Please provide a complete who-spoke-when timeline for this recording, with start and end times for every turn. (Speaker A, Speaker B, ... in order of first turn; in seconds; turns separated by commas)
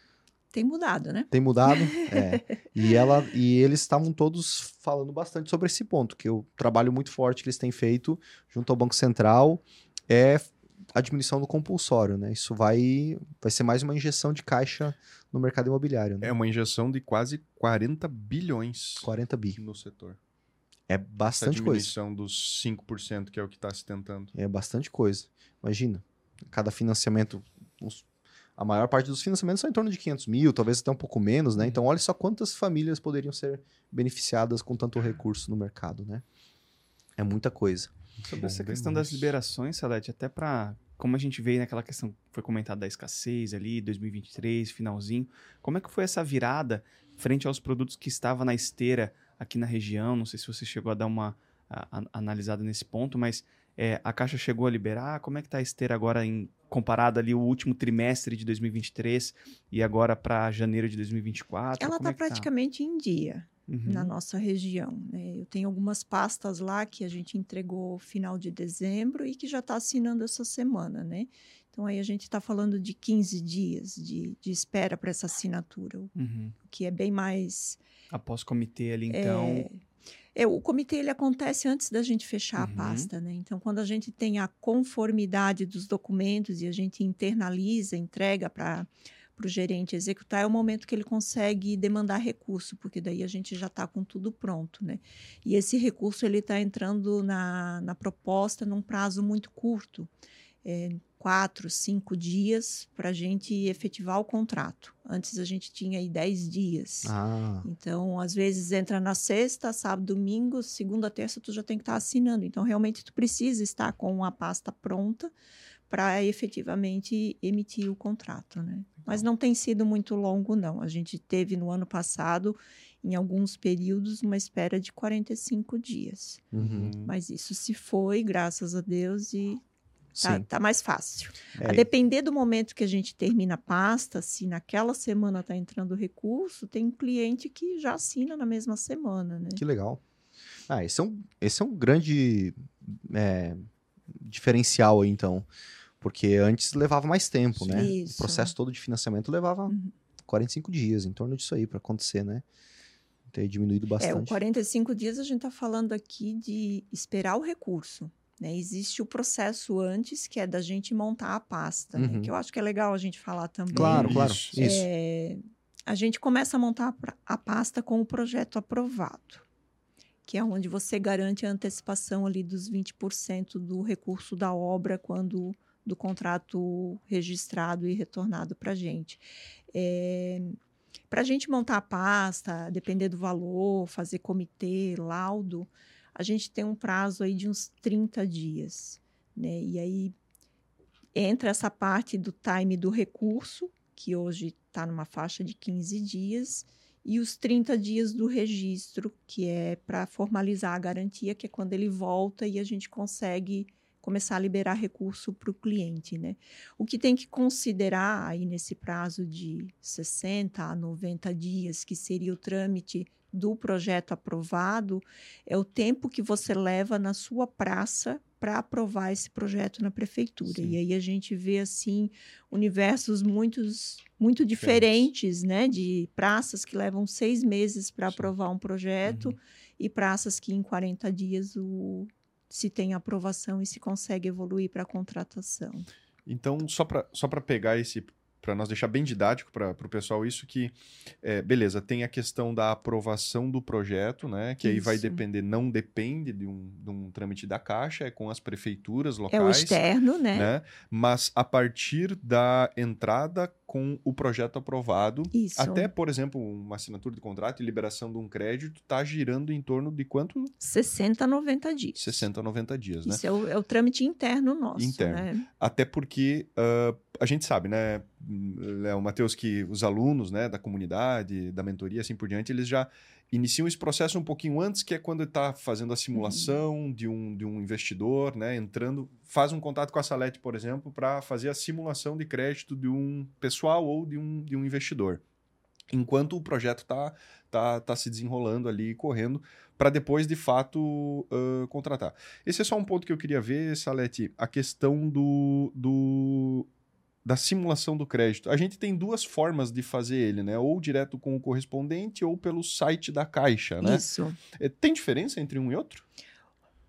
Speaker A: 0.5-2.5, Speaker B: 1.3-16.3, Speaker C: 16.2-20.2, Speaker B: 19.0-19.6, Speaker B: 20.9-21.9, Speaker C: 21.3-24.3, Speaker B: 24.4-28.1, Speaker B: 28.6-36.2, Speaker B: 37.2-37.9, Speaker C: 38.3-39.4, Speaker D: 38.3-62.5, Speaker A: 61.8-77.8, Speaker D: 63.7-64.1, Speaker D: 76.2-76.6, Speaker D: 78.1-79.7, Speaker A: 79.1-79.8, Speaker A: 80.3-100.1, Speaker D: 82.6-83.1, Speaker A: 100.6-115.3, Speaker B: 107.0-107.7, Speaker A: 115.9-126.4, Speaker B: 126.5-126.9, Speaker C: 126.6-127.1, Speaker A: 127.0-129.6, Speaker B: 130.2-130.4, Speaker A: 130.2-139.6, Speaker B: 131.6-131.9, Speaker B: 139.6-140.0, Speaker B: 140.7-145.5, Speaker B: 146.0-149.8, Speaker C: 147.6-147.9, Speaker A: 147.7-148.5, Speaker B: 150.3-152.4, Speaker B: 153.3-154.4, Speaker A: 154.0-169.4, Speaker B: 162.0-162.3, Speaker B: 163.7-164.9, Speaker C: 163.8-164.7, Speaker A: 170.3-180.6, Speaker A: 181.1-190.1, Speaker A: 191.2-235.9, Speaker C: 220.5-220.8, Speaker C: 224.6-224.9, Speaker C: 236.3-249.8, Speaker A: 244.6-245.2, Speaker A: 249.3-250.5, Speaker C: 250.3-260.5, Speaker A: 255.3-255.9, Speaker A: 260.6-262.2, Speaker C: 262.0-263.2, Speaker A: 263.0-265.5, Speaker C: 264.8-285.2, Speaker A: 276.1-276.6, Speaker C: 285.9-296.7, Speaker C: 297.2-306.1, Speaker A: 303.8-304.4